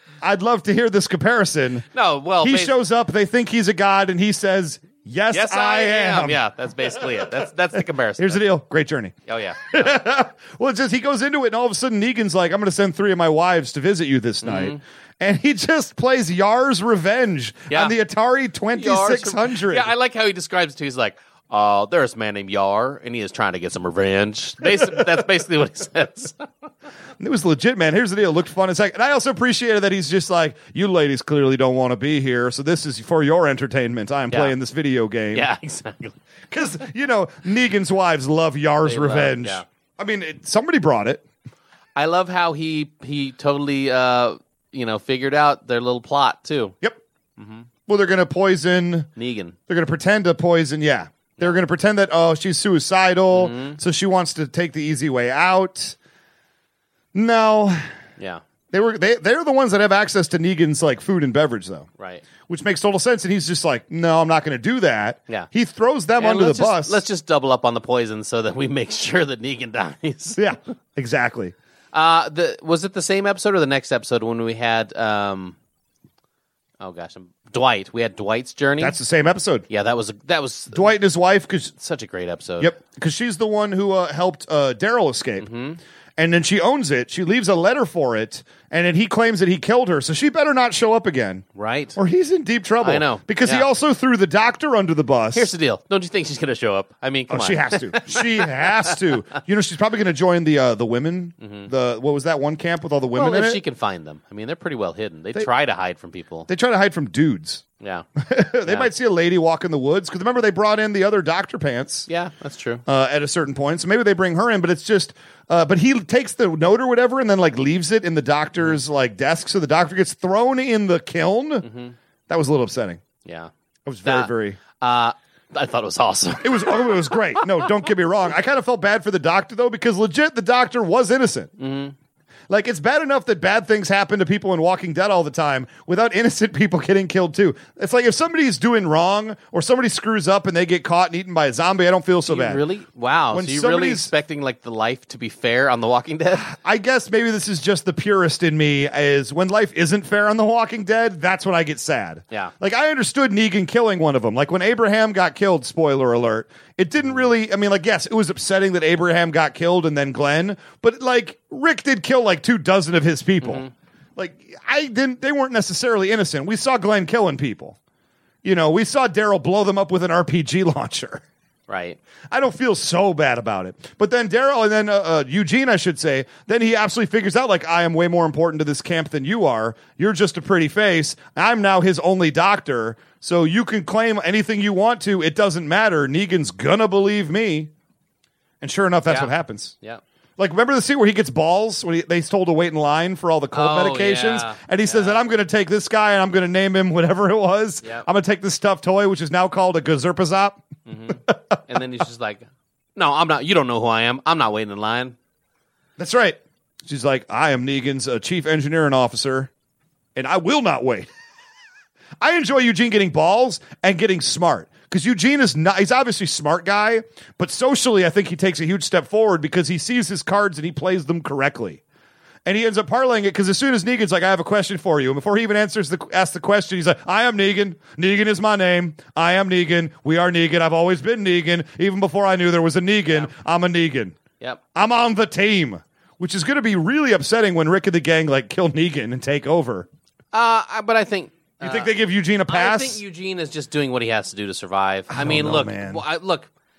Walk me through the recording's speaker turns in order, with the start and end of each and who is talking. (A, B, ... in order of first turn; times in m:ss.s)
0:00.2-0:01.9 A
0:01.9-0:02.8 B
0:02.4-0:07.3 A
0:05.3-0:08.4 B
0:08.2-0:09.1 A
0:09.3-0:09.9 B
0:09.7-0:19.9 A
0:14.4-0:14.8 B
0:17.7-0:18.0 B
0:18.8-0:26.4 B
0:24.8-0:25.0 A
0:27.2-0:35.5 A
0:35.3-0:36.2 B
0:36.5-0:41.2 A
0:38.8-0:39.6 B
0:42.0-0:46.8 B
0:47.4-0:47.7 B
0:47.9-0:49.1 A
0:49.2-0:49.6 B
0:49.7-0:56.0 A
0:53.3-0:53.8 B
0:57.1-0:57.8 A
0:58.2-0:58.4 B
0:58.7-1:01.9 A
1:02.0-1:02.3 B
1:02.4-1:07.0 A
1:06.2-1:10.4 B
1:10.4-1:11.5 A
1:11.9-1:15.6 B
1:16.8-1:19.0 B
1:18.8-1:19.6 A
1:19.7-1:21.0 B
1:20.7-1:21.7 A
1:21.8-1:22.8 B
1:22.6-1:25.5 A
1:25.4-1:25.8 B
1:26.2-1:31.4 A
1:31.6-1:32.0 B
1:32.0-1:35.5 A
1:32.8-1:33.7 B
1:35.3-1:39.0 B
1:37.3-1:43.6 A
1:41.4-1:41.7 B
1:43.1-1:46.5 B
1:46.5-1:47.6 A
1:47.8-1:48.0 B
1:48.2-1:52.1 A
1:52.1-1:52.8 B
1:52.9-2:01.7 A
2:01.6-2:02.0 B
2:02.3-2:03.0 A
2:03.2-2:03.5 B
2:03.9-2:04.6 A
2:04.0-2:07.7 B
2:06.4-2:11.5 A
2:11.6-2:12.0 B
2:12.5-2:22.6 A
2:22.3-2:26.5 B
2:23.3-2:24.1 A
2:26.4-2:43.6 A
2:43.4-2:43.7 B
2:44.2-2:47.8 A
2:48.4-2:51.2 A
2:51.7-2:52.0 B
2:52.3-3:07.7 A
3:08.6-3:09.8 A
3:09.1-3:10.0 B
3:10.4-3:20.6 A
3:13.5-3:15.2 B
3:20.9-3:22.4 B
3:21.3-3:21.6 A
3:23.0-3:25.2 B
3:26.0-3:29.5 A
3:30.2-3:31.1 A
3:32.2-3:41.8 A
3:42.4-3:54.2 A
3:54.8-3:59.9 A
4:00.3-4:01.9 B
4:01.6-4:03.0 A
4:02.5-4:06.5 B
4:05.1-4:06.0 A